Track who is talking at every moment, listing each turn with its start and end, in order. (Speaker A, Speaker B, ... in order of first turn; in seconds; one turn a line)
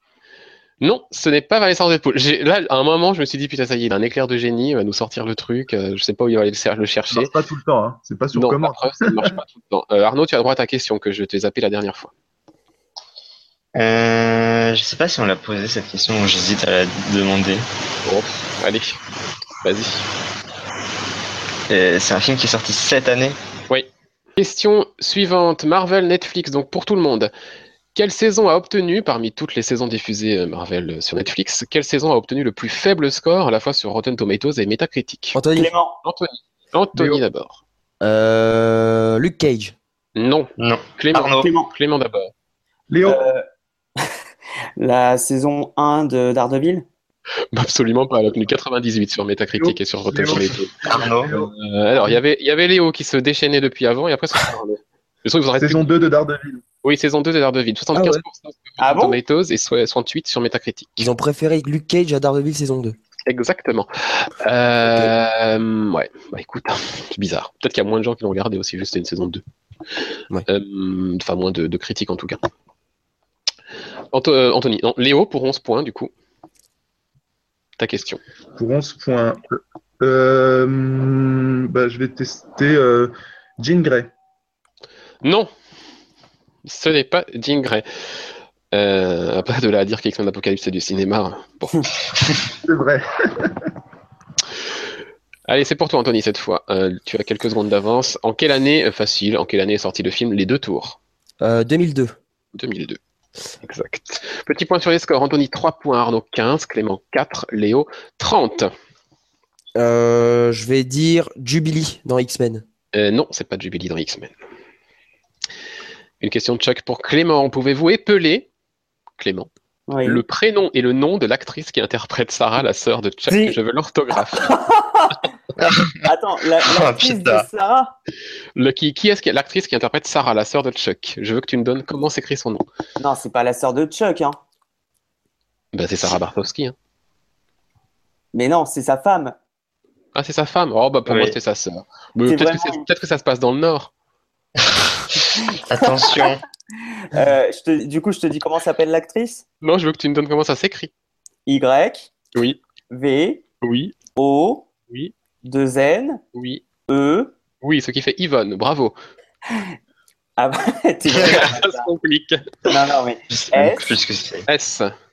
Speaker A: 0.8-7.3
Speaker B: 7.1-9.3
Speaker A: 8.3-12.1
Speaker C: 13.8-17.6
Speaker A: 18.1-19.0
Speaker A: 19.6-20.1
Speaker C: 21.7-23.4
Speaker A: 23.7-27.3
Speaker A: 27.9-35.4
Speaker D: 35.4-35.7
Speaker E: 35.5-36.0
Speaker A: 36.0-37.6
Speaker B: 37.0-37.2
Speaker D: 38.0-39.8
Speaker A: 40.2-42.3
Speaker C: 40.6-41.5
Speaker E: 41.1-41.7
Speaker B: 42.9-43.2
Speaker E: 43.0-43.4
Speaker E: 44.8-46.9
Speaker A: 47.5-55.9
Speaker B: 49.6-50.6
Speaker C: 50.9-51.4
Speaker B: 51.2-51.5
Speaker B: 55.6-56.6
Speaker A: 56.8-61.1
Speaker D: 57.9-58.2
Speaker E: 58.8-59.2
Speaker D: 61.0-63.0
Speaker A: 63.3-69.4
Speaker D: 64.8-65.1
Speaker A: 70.5-72.4
Speaker A: 74.1-76.1
Speaker A: 77.8-78.2
Speaker B: 78.6-84.1
Speaker A: 85.2-85.5
Speaker A: 86.6-87.9
Speaker A: 88.7-91.9
Speaker B: 92.6-93.7
Speaker A: 95.5-101.0
Speaker D: 101.4-102.2
Speaker A: 102.5-103.0
Speaker A: 103.6-108.7
Speaker D: 109.8-112.6
Speaker A: 112.9-114.3
Speaker A: 116.2-118.5
Speaker A: 119.2-119.5
Speaker E: 119.9-120.2
Speaker A: 120.0-124.5
Speaker E: 123.3-123.6
Speaker E: 124.3-125.3
Speaker C: 125.6-126.0
Speaker E: 126.0-128.0
Speaker C: 126.7-127.5
Speaker A: 128.6-132.7
Speaker E: 133.0-134.4
Speaker A: 135.7-136.8
Speaker E: 138.3-139.4
Speaker A: 140.2-143.9
Speaker C: 141.1-141.3
Speaker E: 142.3-142.9
Speaker C: 145.1-146.4
Speaker E: 146.9-149.4
Speaker A: 149.6-150.9
Speaker E: 151.5-152.1
Speaker E: 152.9-153.4
Speaker A: 153.6-153.9
Speaker E: 154.2-154.7
Speaker E: 155.4-156.2
Speaker A: 156.3-156.6
Speaker E: 156.9-157.3
Speaker A: 157.6-159.0
Speaker E: 160.4-161.9
Speaker C: 161.2-161.5
Speaker A: 161.2-162.6
Speaker E: 162.7-164.0
Speaker C: 163.3-164.5
Speaker A: 164.5-164.9